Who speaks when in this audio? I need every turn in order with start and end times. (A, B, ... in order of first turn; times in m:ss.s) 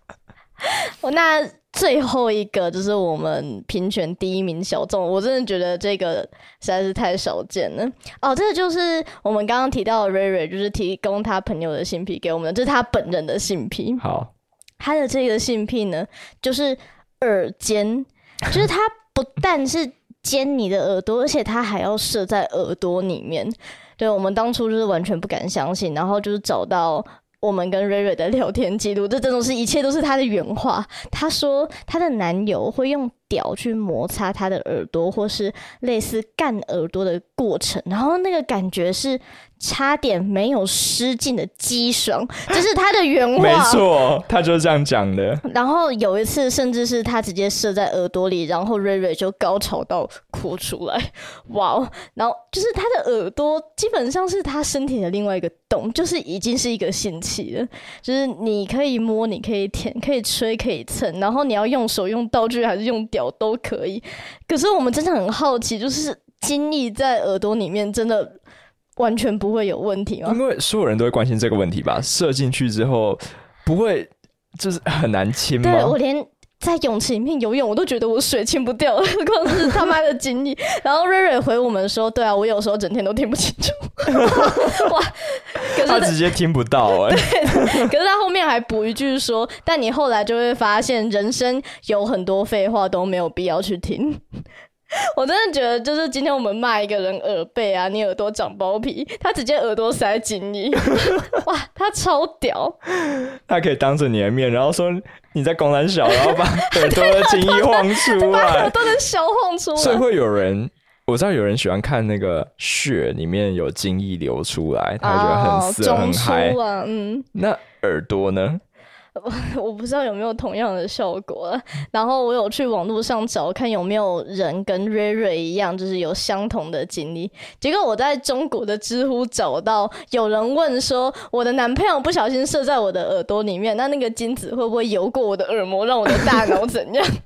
0:00.6-0:14.0 A
0:14.0-0:14.3 B
0:14.8-0:43.8 A
0:43.4-0:45.4 B
0:45.4-1:08.4 A
1:09.0-1:10.4 A
1:10.2-1:16.0 B
1:15.6-1:26.2 A
1:24.3-1:24.6 B
1:25.8-1:27.8 B
1:27.0-1:34.2 A
1:35.1-1:42.8 A
1:43.1-1:48.8 B
1:46.1-1:50.0 A
1:49.8-1:56.6 B
1:55.0-1:57.3 A
1:57.3-1:58.6 B
1:59.2-2:17.1 A